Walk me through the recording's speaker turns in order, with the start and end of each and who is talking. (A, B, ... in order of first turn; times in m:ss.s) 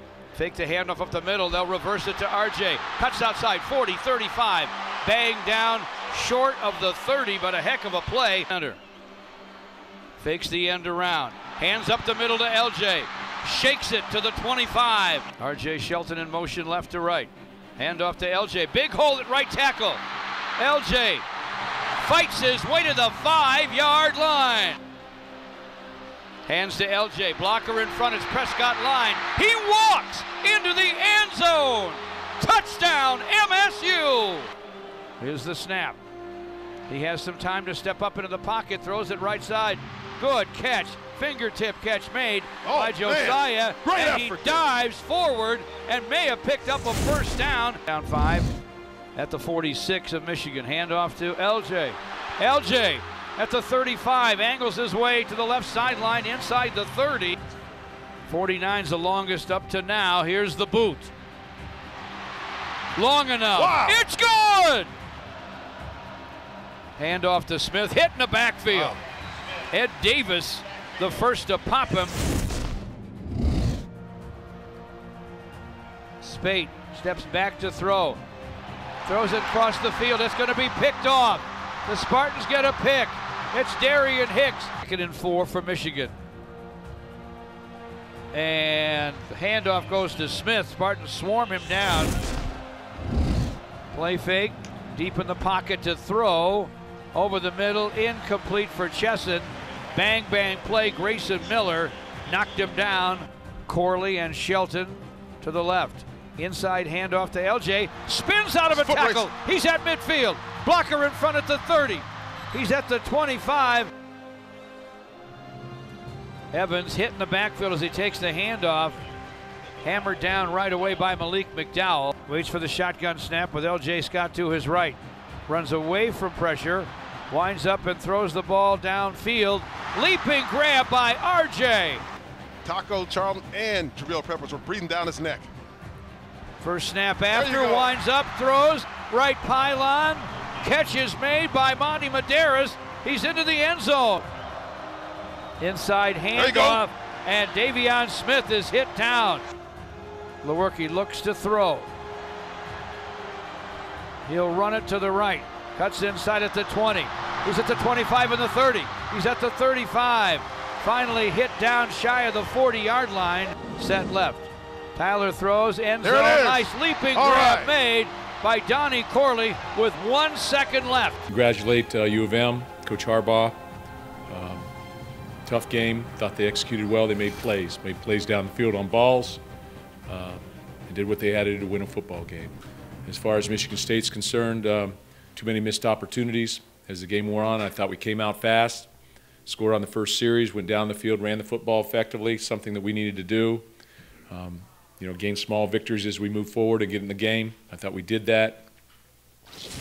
0:00.3-0:08.8 A
0:10.2-0:20.0 A
0:20.6-0:21.2 A
0:22.0-0:24.8 A
0:26.4-0:34.5 A
0:35.2-0:36.0 A
0:36.9-0:48.5 A
0:42.6-0:44.6 B
0:49.2-0:57.4 A
0:58.3-1:01.1 A
1:02.9-1:04.9 A
1:03.6-1:04.0 B
1:07.0-1:09.0 A
1:09.7-1:12.2 A
1:16.2-1:18.2 A
1:19.0-1:26.1 A
1:28.3-1:32.1 A
1:33.9-1:53.9 A
1:48.7-1:49.3 B
1:56.5-1:59.0 A
1:59.8-2:12.0 A
2:12.6-2:15.5 B
2:16.6-2:24.3 A
2:17.3-2:17.9 B
2:25.6-2:29.4 A
2:26.3-2:26.8 B
2:30.4-2:31.9 A
2:34.2-2:51.2 A
2:46.0-2:47.7 B
2:51.3-2:53.6 C
2:54.3-2:54.7 C
2:55.4-2:59.4 C
3:00.1-3:02.5 C
3:03.0-3:08.9 C
3:09.4-3:13.6 C
3:14.3-3:18.7 C